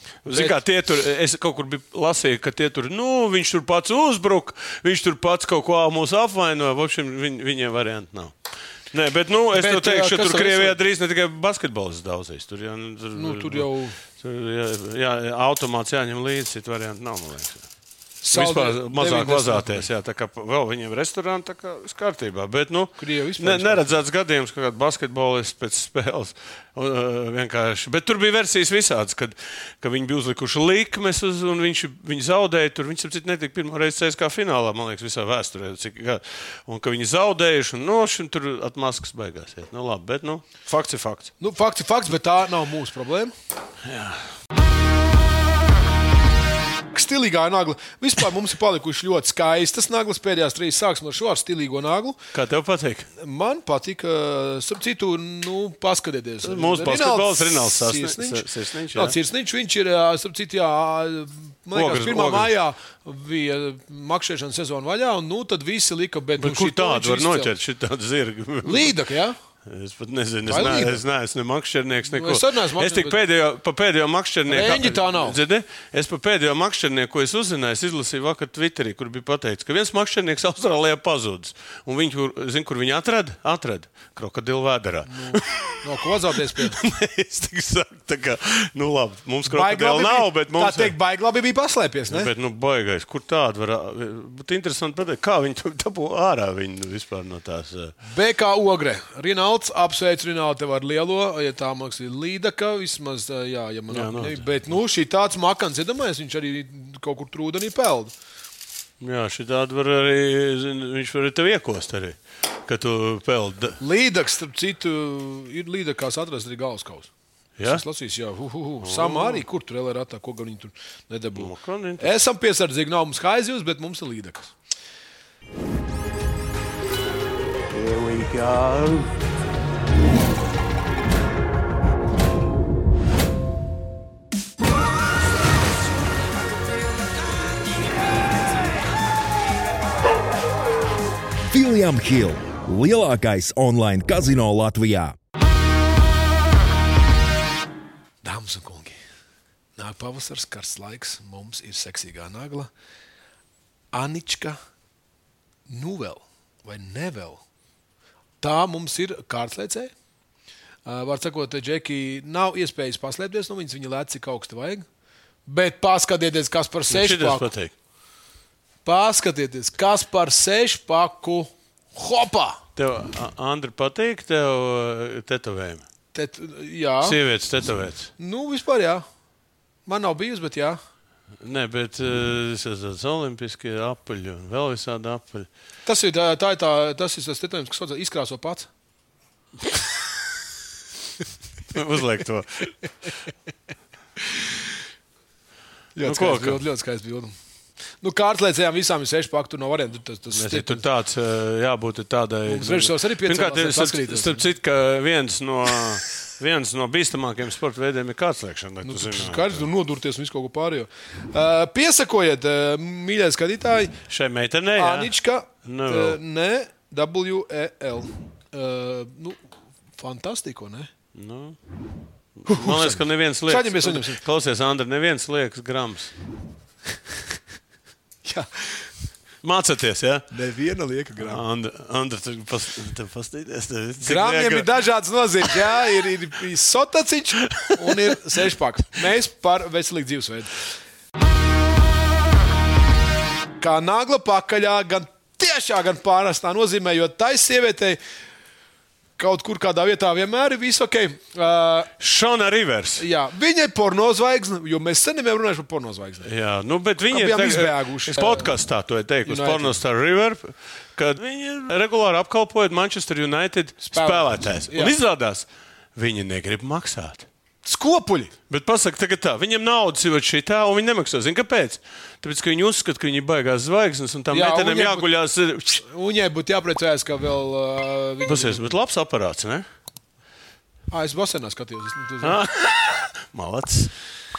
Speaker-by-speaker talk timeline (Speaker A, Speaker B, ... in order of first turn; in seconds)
Speaker A: 0.2-8.3, 8.9-13.7, 14.2-17.6, 18.3-41.3, 43.8-44.2, 52.3-53.1, 56.4-59.1, 61.7-62.5, 66.4-68.9, 69.7-85.8, 86.6-90.9, 92.1-97.9, 103.9-104.4, 109.0-113.8, 117.6-117.8, 118.8-119.4, 121.4-122.1, 127.7-129.1, 166.9-167.7, 172.8-175.8, 177.0-178.1, 181.4-185.5, 191.7-192.7, 196.0-196.6, 200.3-209.7, 214.1-215.1, 215.6-216.2, 221.1-221.6, 222.4-226.1, 229.4-230.3, 231.2-234.7, 235.4-235.9, 252.0-253.0, 256.2-267.3, 268.5-275.8, 278.3-279.6, 282.2-283.9
Speaker B: 0.3-0.6, 9.5-10.8, 13.1-13.9, 18.2-19.9, 23.0-24.0, 41.4-43.3, 46.9-52.2, 53.2-67.5, 68.6-69.4, 70.5-71.0, 72.1-73.2, 74.5-75.4, 85.1-86.8, 89.5-92.3, 98.1-108.1, 113.8-117.1, 117.7-124.5, 148.2-149.0, 149.8-152.7, 153.9-154.6, 155.7-157.4, 158.4-159.9, 160.8-164.8, 165.4-167.5, 168.8-172.6, 176.1-177.2, 178.2-179.0, 179.9-180.8, 185.8-188.7, 195.9-197.3, 198.0-200.8, 202.5-204.4, 208.8-214.0, 214.8-219.4, 220.0-220.9, 222.5-224.2, 228.2-228.9, 230.3-231.4, 234.0-240.6, 243.6-248.0, 249.2-251.9, 253.0-256.3, 257.1-258.5, 259.2-259.8, 263.8-264.9, 267.6-268.3, 274.3-275.1, 275.8-278.7, 280.9-282.4
Speaker C: 141.4-145.2